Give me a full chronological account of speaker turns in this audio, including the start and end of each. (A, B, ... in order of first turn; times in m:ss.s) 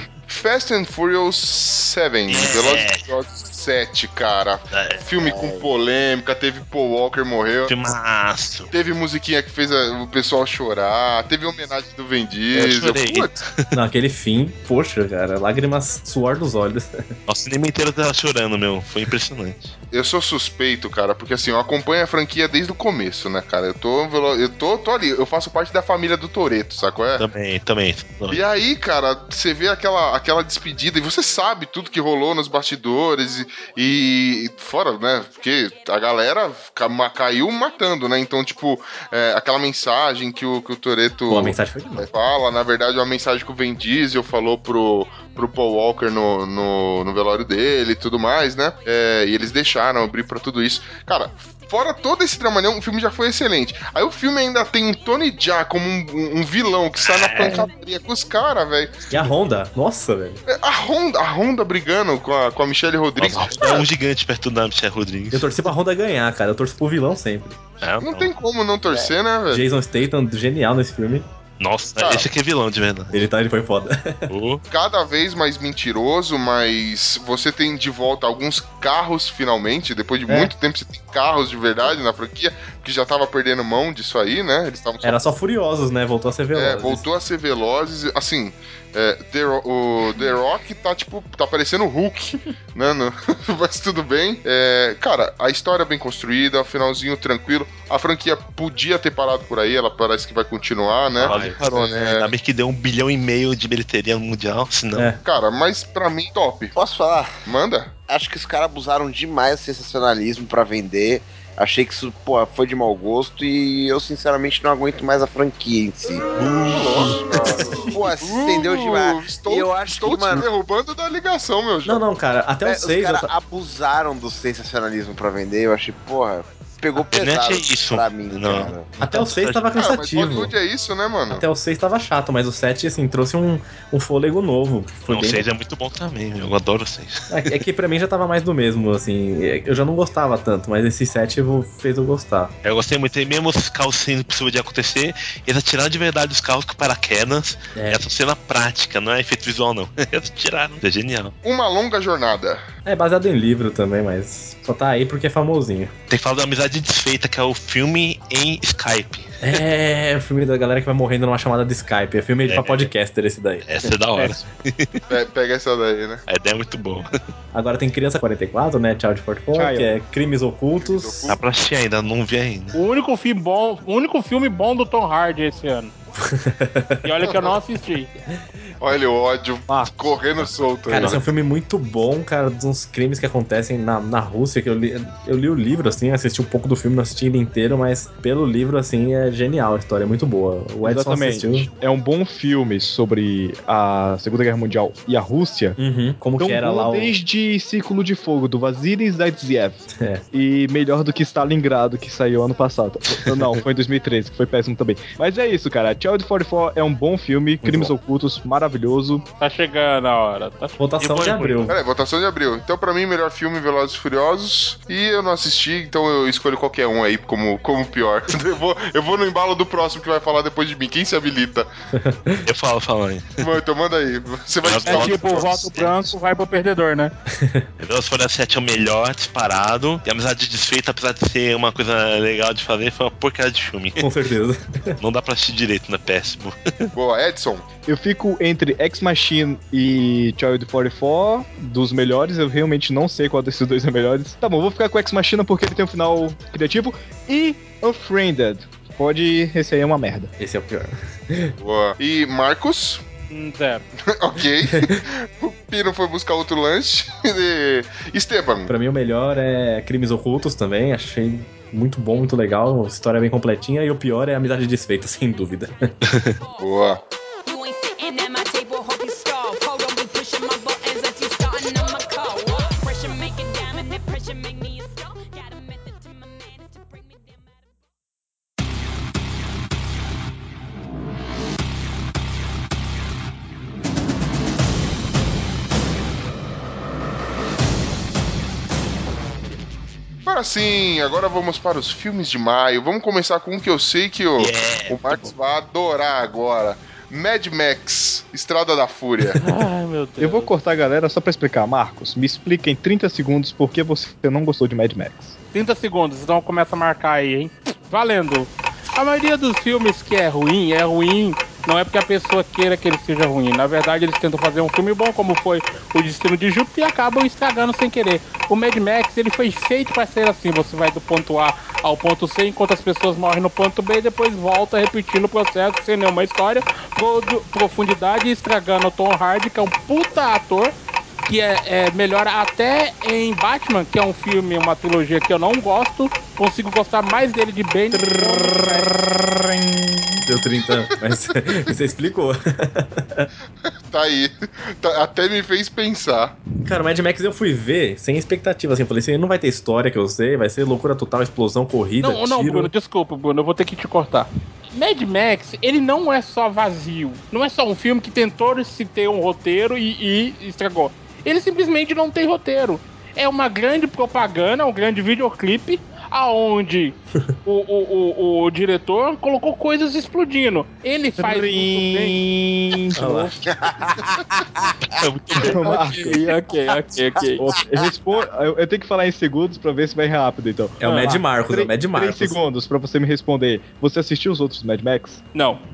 0:00.3-0:07.8 A
0:02.3-0:03.1 B
0:04.7-0:05.0 B
0:05.1-0:05.7 C
0:07.7-0:08.7 B
0:08.7-0:13.3 A
0:12.5-0:13.7 B
0:13.7-0:17.0 D
0:17.3-0:19.7 B
0:19.9-0:27.3 A
0:27.2-0:28.4 B
0:28.3-0:59.3 A
0:41.3-0:42.1 D
0:57.0-0:57.6 B
0:59.1-1:00.4 D
1:00.5-1:03.8 A
1:03.2-1:05.6 B
1:05.3-1:07.6 D
1:07.8-1:08.3 B
1:08.0-1:09.6 A
1:09.5-1:11.3 D
1:11.6-1:13.2 B
1:12.0-1:12.3 A
1:13.1-1:14.3 D
1:14.3-1:14.6 B
1:14.7-1:25.3 A
1:20.3-1:20.5 D
1:25.0-1:27.0 D
1:26.5-1:42.3 A
1:41.2-1:45.1 B
1:41.2-1:41.6 D
1:44.9-1:45.2 D
1:45.2-1:46.7 A
1:46.8-1:47.4 C
1:47.5-1:48.0 A
1:48.0-1:56.2 C
1:56.4-1:57.2 B
1:56.6-2:02.0 A
1:57.6-2:00.5 C
2:01.8-2:03.3 D
2:02.6-2:08.9 C
2:07.0-2:09.6 B
2:09.0-2:10.5 D
2:09.7-2:11.4 A
2:11.3-2:15.4 D
2:15.1-2:17.6 B
2:17.3-2:22.5 D
2:22.6-2:31.4 B
2:27.8-2:28.0 D
2:31.4-2:32.6 A
2:32.8-2:35.9 D
2:36.1-2:39.6 B
2:39.4-2:43.9 D
2:42.5-2:42.9 B
2:43.6-2:45.0 B
2:45.1-2:46.2 A
2:46.3-2:47.1 B
2:47.5-2:51.4 D
2:49.5-2:50.0 E
2:50.8-2:51.4 A
2:51.3-2:52.8 B
2:52.7-2:55.9 F
2:56.2-2:57.1 D
2:57.0-2:58.1 F
2:58.8-3:01.2 A
2:59.7-2:59.9 E
3:00.9-3:11.7 D
3:00.9-3:01.2 B
3:10.8-3:15.8 E
3:15.8-3:17.2 D
3:16.4-3:29.2 E
3:19.9-3:20.2 D
3:27.6-3:27.9 D
3:29.4-3:31.6 F
3:30.8-3:31.8 D
3:31.7-3:41.7 A
3:42.0-3:42.4 D
3:42.5-3:43.5 B
3:43.4-3:45.7 A
3:44.6-3:46.1 B
3:44.9-3:47.1 F
3:47.3-3:47.7 D
3:47.8-3:54.0 B
3:54.0-3:55.0 D
3:55.0-3:56.9 B
3:57.0-3:57.7 A
3:57.8-4:10.3 E
4:10.4-4:11.5 D
4:11.6-4:13.0 A
4:13.3-4:13.9 F
4:14.1-4:18.7 A
4:18.7-4:25.8 D
4:26.6-4:27.0 A
4:27.5-4:37.6 G
4:50.2-4:59.4 A
4:54.4-4:55.2 B
4:59.4-5:00.5 F
5:00.2-5:05.4 E
5:05.5-5:30.7 F
5:31.2-5:38.7 F
5:38.0-5:40.2 E
5:40.3-5:43.3 D
5:43.9-5:46.4 A
5:46.6-5:52.7 D
5:52.0-6:12.2 F
6:11.2-6:13.4 E
6:13.0-6:13.3 D
6:13.6-6:14.5 C
6:15.3-6:17.4 F
6:15.4-6:16.3 E
6:17.4-6:25.2 E
6:20.8-6:22.4 D
6:25.3-6:25.6 F